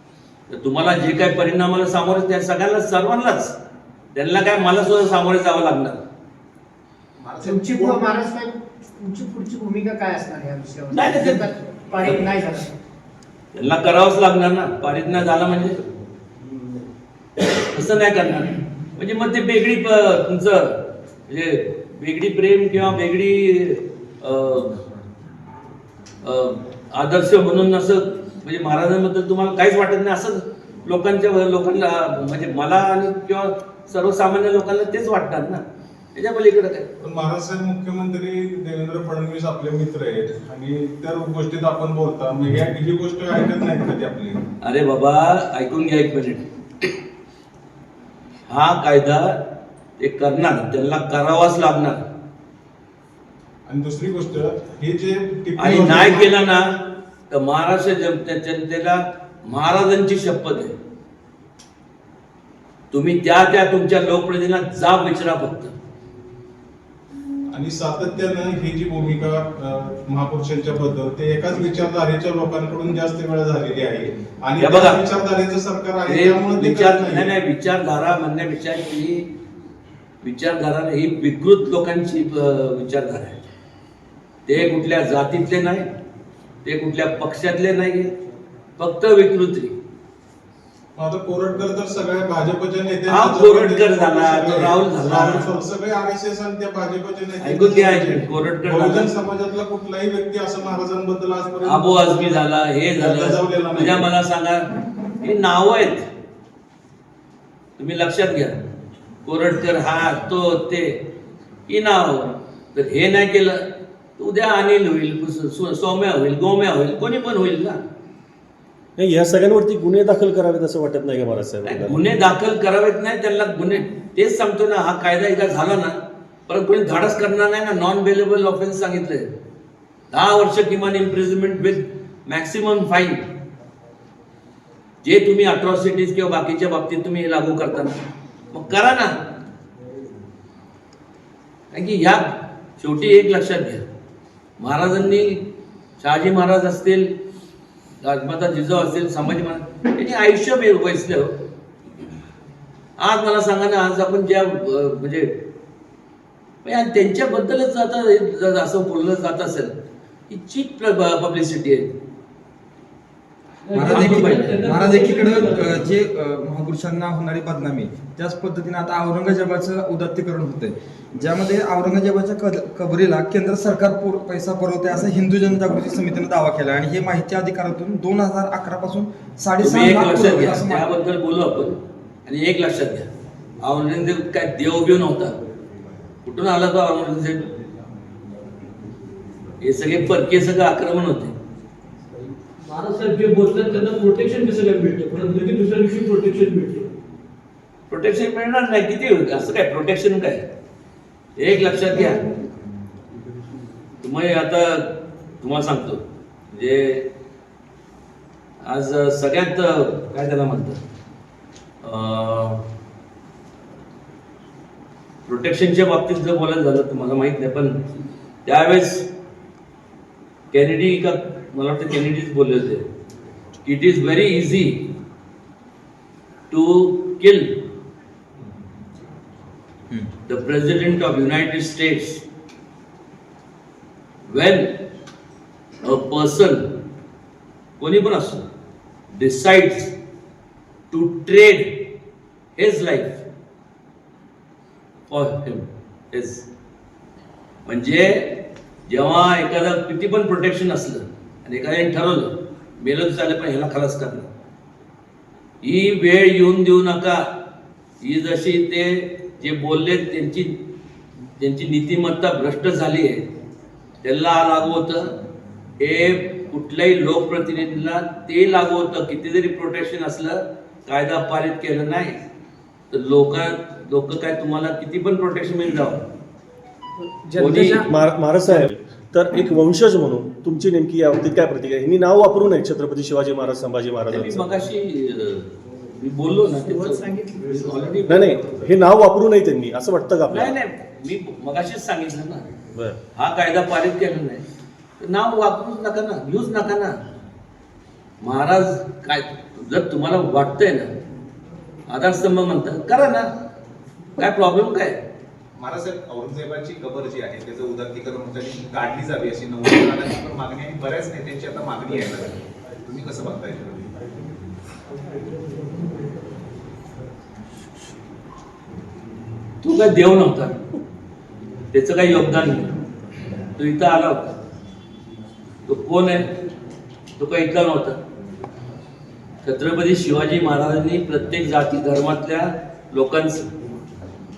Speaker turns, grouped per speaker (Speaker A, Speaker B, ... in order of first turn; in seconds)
Speaker A: 0.5-3.6, 4.1-6.0, 10.9-11.4, 13.5-15.8, 17.6-24.8, 26.2-35.6, 36.1-36.9, 44.6-46.4, 48.5-49.4, 50.0-52.0, 55.6-56.8, 57.3-60.7, 62.9-65.7, 74.6-75.0, 76.1-79.3, 80.2-83.4, 84.5-85.9, 86.6-88.1, 88.8-89.7, 93.1-95.5, 97.4-99.1, 101.6-104.7, 105.2-106.1, 107.8-108.6, 109.2-111.0, 111.7-117.8, 121.6-129.3, 130.1-133.2, 135.0-137.9, 138.5-139.1, 141.7-143.8, 144.6-145.4, 146.0-147.1, 148.0-151.4, 153.0-155.3, 156.6-159.7, 160.3-161.9, 163.9-164.2, 179.6-183.1, 183.6-185.4, 186.2-187.5, 189.6-191.3, 197.9-200.4, 201.4-202.2, 204.0-207.1, 208.6-210.8, 211.8-212.6, 215.2-217.8, 218.4-219.1, 220.5-222.8, 223.6-224.8, 226.5-227.6, 230.2-232.2, 234.3-234.8, 235.8-236.7, 237.8-238.4, 239.1-239.9, 240.9-241.8, 242.5-243.2, 245.1-246.5, 247.7-248.4, 248.9-254.3, 255.6-257.2, 258.0-260.5, 261.4-263.2, 264.0-265.1, 265.8-272.2, 272.9-276.0, 277.4-277.8, 284.1-288.4, 290.3-292.5, 293.1-294.4, 295.0-297.0, 298.2-300.9, 301.9-303.3, 304.2-305.0, 319.6-320.6, 321.7-322.7, 323.6-324.3, 325.7-326.3, 327.2-328.0, 329.4-333.5
Speaker B: 7.2-8.1, 305.5-313.9
Speaker C: 7.4-12.7, 277.0-277.3, 286.7-287.5
Speaker D: 37.0-44.4, 53.6-56.3, 67.5-77.3, 91.0-102.4, 103.0-104.1
Speaker E: 119.0-122.0, 277.4-284.5, 288.0-290.5
Speaker F: 163.6-165.9, 192.6-196.9
Speaker G: 163.7-180.9